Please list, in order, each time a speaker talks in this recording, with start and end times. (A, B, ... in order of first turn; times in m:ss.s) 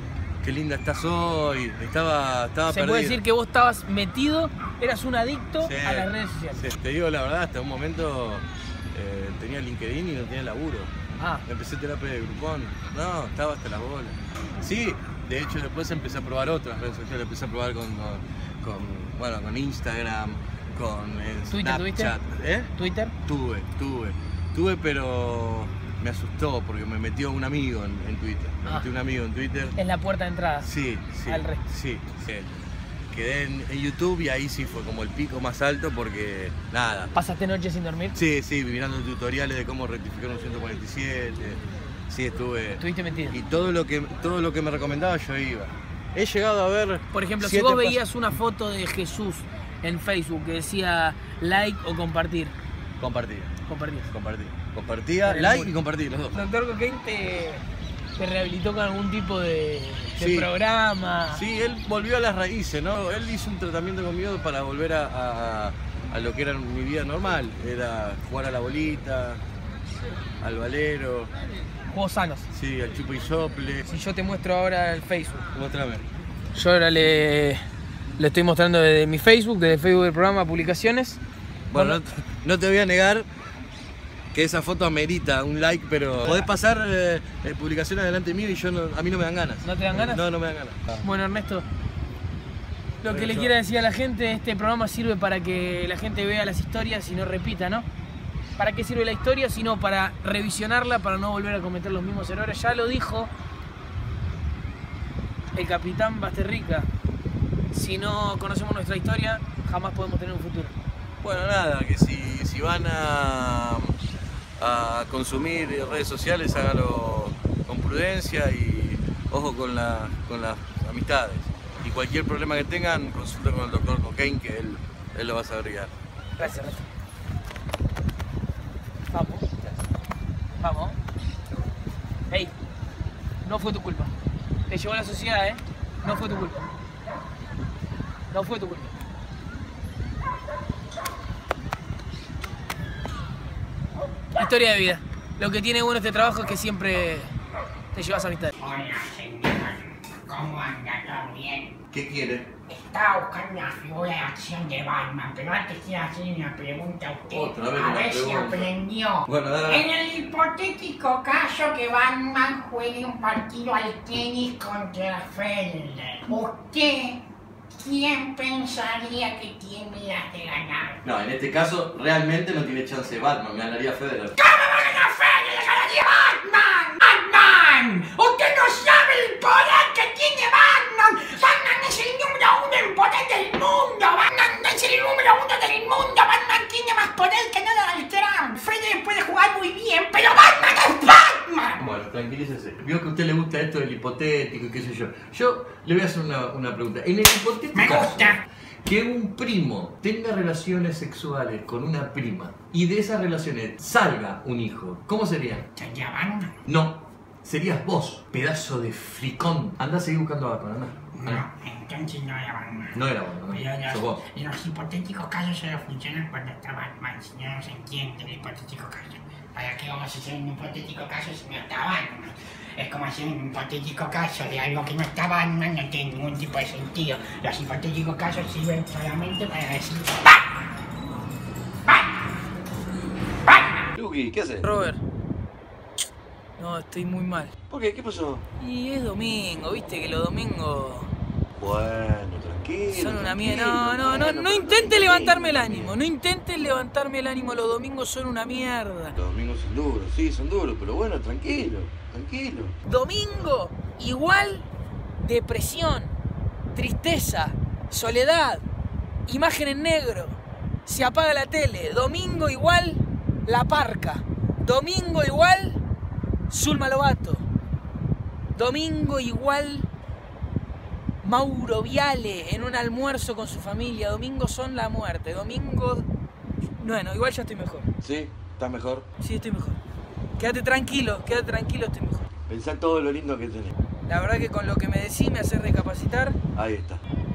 0:00.4-0:03.2 A
0:02.7-0:06.6 B
0:05.6-0:10.9 A
0:11.2-0:11.4 B
0:11.4-0:22.7 A
0:21.5-0:22.1 B
0:22.7-0:23.1 B
0:23.2-0:29.8 A
0:29.8-0:30.7 B
0:30.6-0:32.6 A
0:31.2-0:31.6 B
0:33.1-0:37.1 A
0:37.1-0:38.2 B
0:38.1-0:48.0 A
0:42.8-0:43.4 B
0:47.1-0:52.5 B
0:53.0-0:53.5 A
0:53.7-0:54.1 B
0:54.1-0:56.4 A
0:55.2-0:55.7 B
0:56.3-0:57.6 B
0:58.2-1:01.4 B
1:00.2-1:00.5 A
1:01.3-1:09.4 A
1:10.4-1:11.3 A
1:11.9-1:12.5 B
1:12.5-1:13.9 A
1:13.9-1:15.5 B
1:15.5-1:16.0 A
1:16.5-1:17.6 B
1:18.2-1:21.2 B
1:21.7-1:23.3 A
1:21.7-1:22.0 B
1:24.3-1:31.0 A
1:29.6-1:30.2 B
1:31.0-1:31.6 B
1:33.0-1:37.9 B
1:33.0-1:33.5 A
1:38.6-1:43.3 B
1:45.5-1:46.9 B
1:47.7-1:50.7 B
1:51.2-1:54.0 A
1:54.6-2:05.9 A
2:06.4-2:06.9 B
2:09.1-2:09.4 B
2:10.6-2:11.0 B
2:13.4-2:14.1 B
2:14.7-2:16.7 B
2:18.3-2:18.9 B
2:24.3-2:27.3 B
2:27.9-2:28.5 B
2:28.6-2:31.8 C
2:31.9-2:32.5 A
2:32.7-2:47.2 C
2:37.3-2:38.7 A
2:39.2-2:39.8 A
2:47.8-2:51.0 C
2:51.0-2:54.4 A
2:54.4-3:11.8 C
3:11.8-3:25.6 A
3:17.7-3:18.4 C
3:25.8-3:26.6 C
3:26.6-3:31.4 A
3:31.2-3:50.5 C
3:32.9-3:34.2 A
3:51.9-3:52.1 C
3:53.5-3:53.8 C
3:53.9-3:54.7 A
3:54.6-3:55.0 B
3:56.6-3:57.5 B
3:57.7-3:58.4 A
3:58.6-4:01.1 B
4:01.6-4:06.0 A
4:02.9-4:09.2 B
4:09.2-4:12.7 A
4:12.8-4:14.7 B
4:15.2-4:16.1 B
4:16.7-4:18.6 B
4:19.2-4:25.8 B
4:26.5-4:27.4 B
4:28.5-4:29.9 B
4:31.2-4:36.1 B
4:36.8-4:37.9 B
4:38.0-4:39.1 A
4:39.2-4:39.8 B
4:40.4-4:42.3 B
4:42.5-4:43.7 A
4:44.0-4:46.4 B
4:46.5-4:47.0 A